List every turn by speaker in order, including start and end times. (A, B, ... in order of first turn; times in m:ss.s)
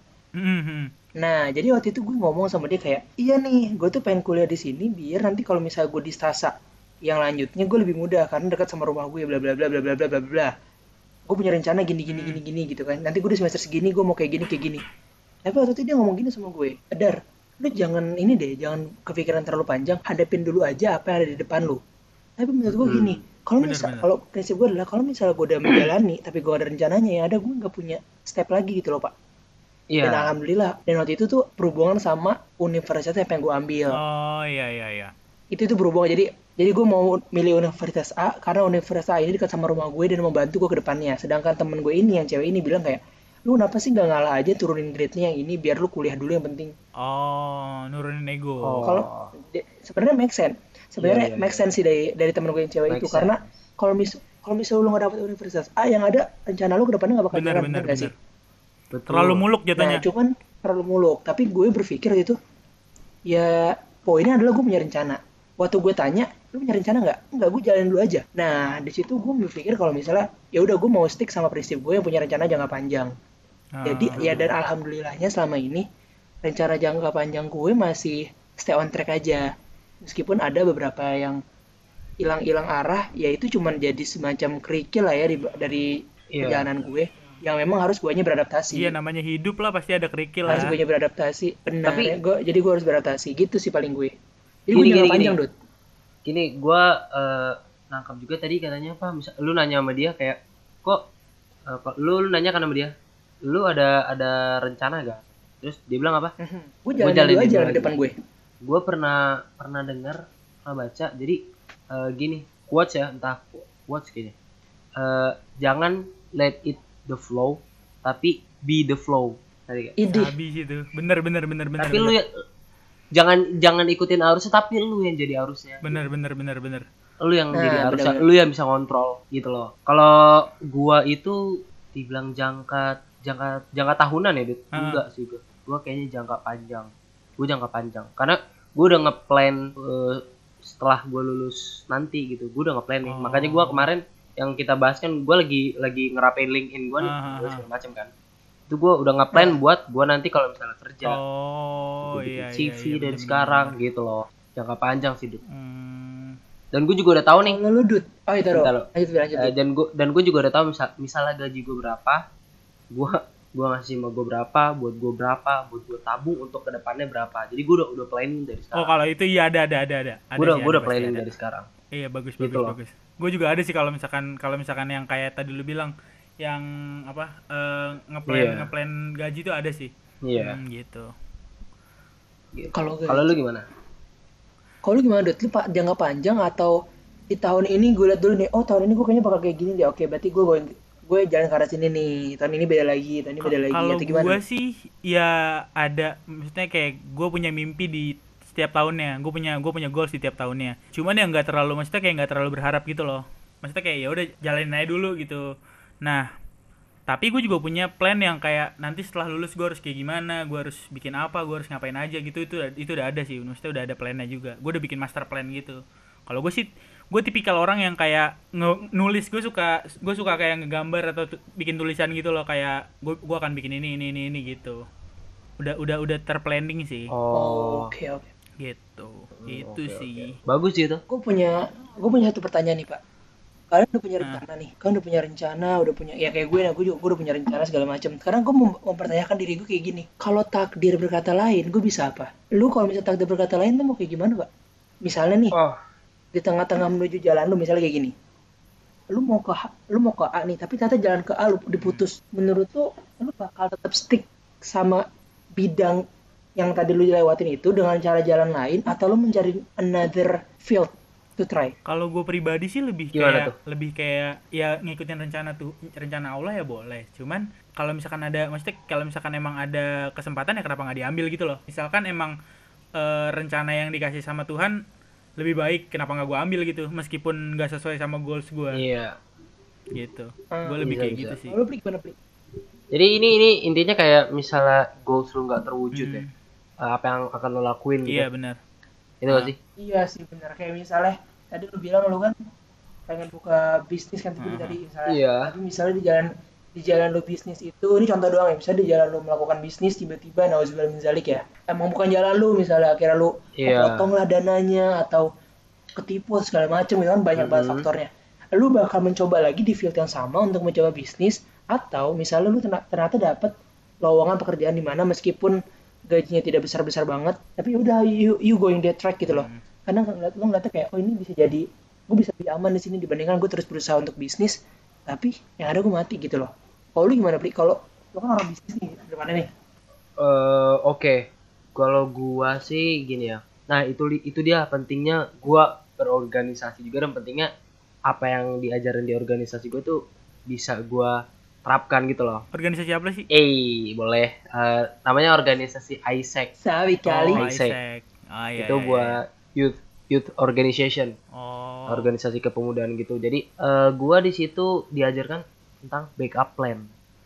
0:00.4-0:00.9 A
0:01.2-0:06.5 B
0:07.0-0:10.5 B
0:11.3-0:14.8 B
0:12.1-0:12.4 A
0:15.4-0:21.8 B
0:22.4-0:29.1 B
0:22.7-0:23.2 C
0:23.6-0:24.0 A
0:29.9-0:30.3 C
0:30.0-0:34.0 B
0:34.0-0:35.1 A
0:35.5-0:46.7 B
0:47.0-0:48.8 A
0:48.6-0:49.3 C
0:48.8-0:58.1 B
0:51.0-0:51.7 C
0:52.9-0:53.5 C
0:57.3-0:58.1 A
0:58.9-0:59.4 C
0:59.1-1:00.0 A
0:59.8-1:02.4 B
1:03.3-1:13.1 B
1:13.8-1:14.2 A
1:13.8-1:15.8 B
1:14.2-1:14.5 C
1:16.4-1:19.4 B
1:20.0-1:21.4 B
1:22.2-1:25.9 B
1:26.3-1:26.7 C
1:26.4-1:28.9 B
1:28.7-1:30.7 A
1:30.4-1:30.7 C
1:30.5-1:34.1 B
1:31.8-1:32.2 C
1:34.7-1:35.5 B
1:34.7-1:35.4 C
1:36.2-1:41.0 C
1:41.7-1:42.9 C
1:43.4-1:46.3 C
1:46.4-1:48.1 B
1:47.0-1:47.9 C
1:48.6-1:51.4 C
1:51.9-1:54.3 C
1:55.0-2:00.0 C
2:00.0-2:00.3 B
2:00.1-2:02.1 A
2:01.8-2:02.3 C
2:03.1-2:06.0 C
2:05.8-2:06.8 A
2:07.2-2:11.4 C
2:07.5-2:08.2 B
2:11.9-2:28.1 C
2:14.8-2:15.0 A
2:23.1-2:23.8 A
2:27.0-2:27.6 A
2:28.7-2:31.2 C
2:31.0-2:33.7 A
2:32.0-2:35.4 C
2:35.5-2:36.4 A
2:36.7-2:37.6 C
2:37.4-2:39.5 B
2:38.5-2:42.2 C
2:42.9-2:48.9 C
2:48.8-2:51.2 A
2:50.4-2:51.7 C
2:51.9-3:01.1 A
2:52.4-2:52.7 C
2:58.3-2:58.7 C
3:00.2-3:00.6 C
3:02.5-3:03.6 C
3:02.7-3:03.3 B
3:04.8-3:06.7 B
3:07.3-3:14.4 B
3:13.4-3:25.4 A
3:27.1-3:44.8 A
3:45.6-3:47.1 A
3:47.1-3:47.9 C
3:47.3-3:48.3 B
3:48.6-3:50.4 A
3:49.4-3:51.0 C
3:51.1-3:53.0 B
3:53.7-4:04.5 B
4:05.0-4:05.6 B
4:05.5-4:05.8 C
4:06.3-4:08.1 B
4:09.1-4:15.0 B
4:11.8-4:12.0 A
4:15.6-4:16.0 B
4:16.6-4:21.7 B
4:21.8-4:32.3 A
4:23.1-4:23.6 C
4:33.0-4:34.7 A
4:35.4-4:38.8 A
4:38.7-4:39.2 C
4:39.9-4:41.6 A
4:40.5-4:40.9 B
4:40.8-4:41.4 C
4:41.4-4:42.1 B
4:42.9-4:46.2 C
4:46.0-4:46.3 A
4:46.8-4:48.3 C
4:48.1-4:48.6 A
4:49.2-4:49.6 C
4:49.8-4:52.3 B
4:53.1-5:05.3 B
4:54.4-4:54.8 A
4:55.1-4:55.5 C
5:03.6-5:04.1 C
5:06.0-5:15.6 B
5:07.4-5:07.8 C
5:16.1-5:24.6 B
5:19.2-5:19.6 A
5:25.1-5:29.5 B
5:30.2-5:31.2 C
5:31.7-5:37.5 C
5:38.1-5:42.4 C
5:42.5-5:43.2 A
5:43.3-5:46.5 C
5:46.6-5:47.4 B
5:47.2-5:47.7 C
5:47.2-5:49.1 A
5:48.6-5:51.1 C
5:51.4-5:52.1 A
5:51.9-5:56.8 C